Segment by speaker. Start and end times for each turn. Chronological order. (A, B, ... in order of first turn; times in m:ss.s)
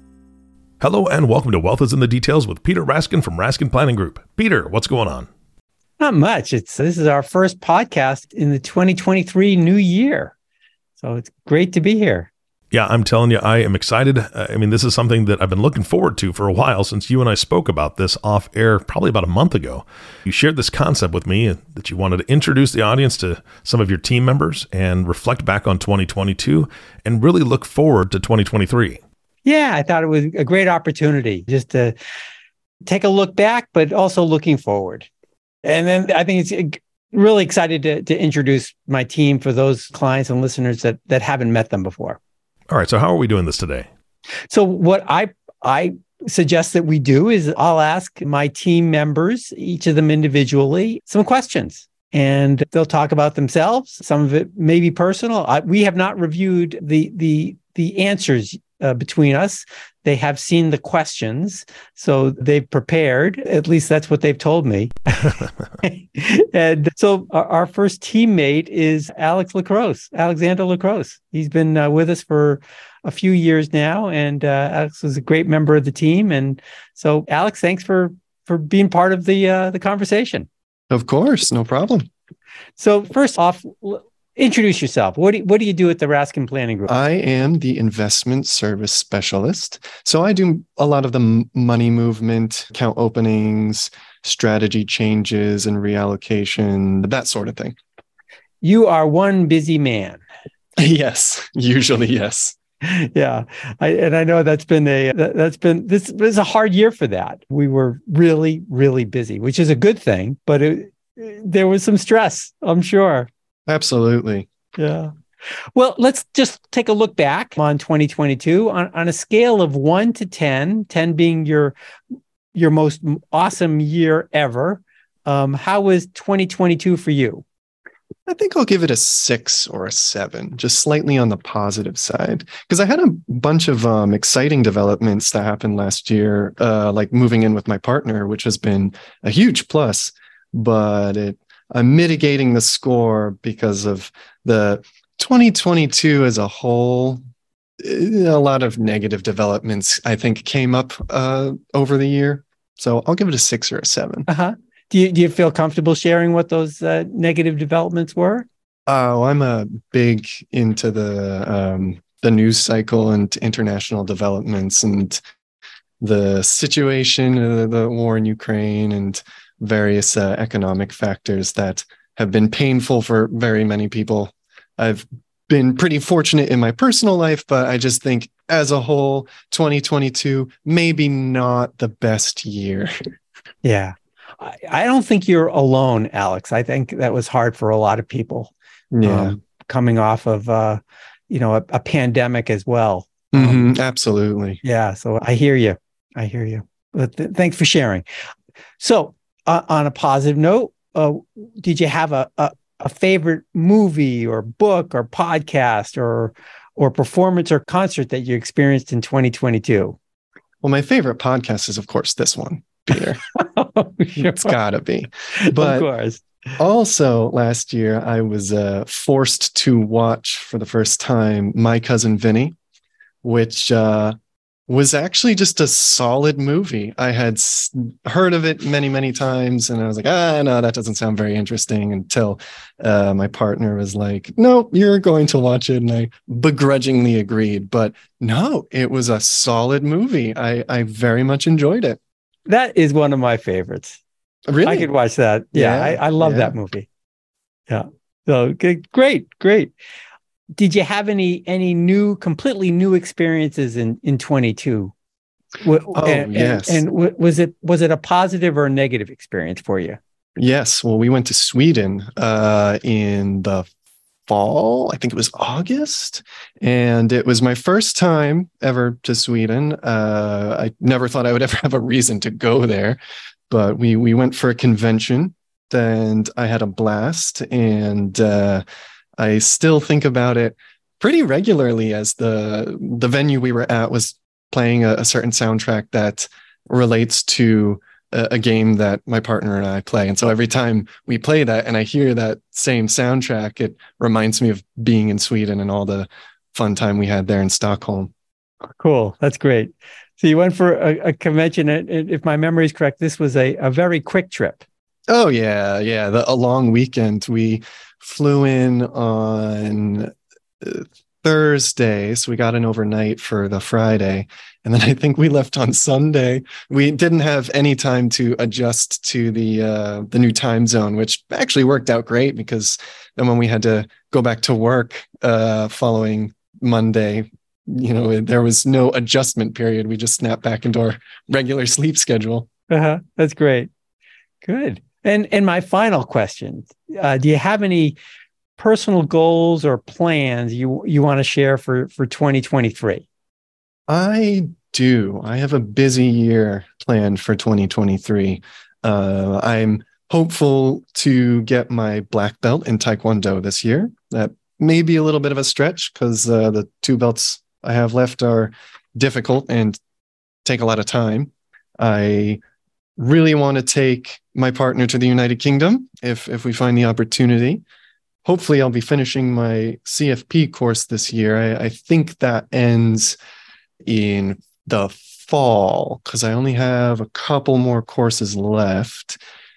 0:00.8-0:05.3 A
0:06.0-0:10.3 B
0:11.0-0:12.3 B
0:12.7-0:29.0 A
0:29.4-0:32.0 B
0:32.8-0:35.1 B
0:35.6-0:42.2 B
0:42.7-0:43.9 A
0:44.5-1:20.5 B
1:20.9-1:22.1 C
1:22.8-1:26.9 B
1:26.9-1:37.8 C
1:38.6-1:40.2 B
1:40.8-1:42.6 C
1:42.8-1:53.3 B
1:53.7-1:54.5 C
1:54.8-1:55.1 B
1:55.7-2:01.8 B
2:02.5-2:07.4 B
2:08.3-2:27.2 C
2:27.8-2:34.3 C
2:34.3-2:38.5 B
2:38.9-2:45.2 C
2:46.0-3:02.9 C
3:03.6-3:08.5 B
3:08.9-3:09.4 C
3:09.0-3:13.7 B
3:13.3-3:14.6 C
3:14.6-3:18.0 B
3:18.8-3:30.0 B
3:30.6-3:33.2 C
3:33.4-3:34.5 B
3:34.2-3:35.9 C
3:35.5-3:36.2 B
3:36.6-3:42.6 C
3:43.2-3:44.2 C
3:44.7-4:02.0 C
4:02.5-4:04.0 B
4:04.5-4:04.9 C
4:04.6-4:06.9 B
4:05.5-4:06.5 C
4:07.7-4:09.7 B
4:10.6-4:14.9 B
4:15.6-4:20.0 B
4:15.9-4:16.8 C
4:20.4-4:23.7 C
4:24.3-4:38.6 C
4:39.2-4:58.1 C
4:58.8-5:04.6 B
5:05.1-5:32.5 C
5:32.7-5:33.7 B
5:34.4-5:38.0 B
5:38.6-5:43.0 B
5:43.9-5:59.8 C
6:00.4-6:02.4 C
6:03.0-6:07.6 C
6:08.2-6:13.2 C
6:13.8-6:19.2 C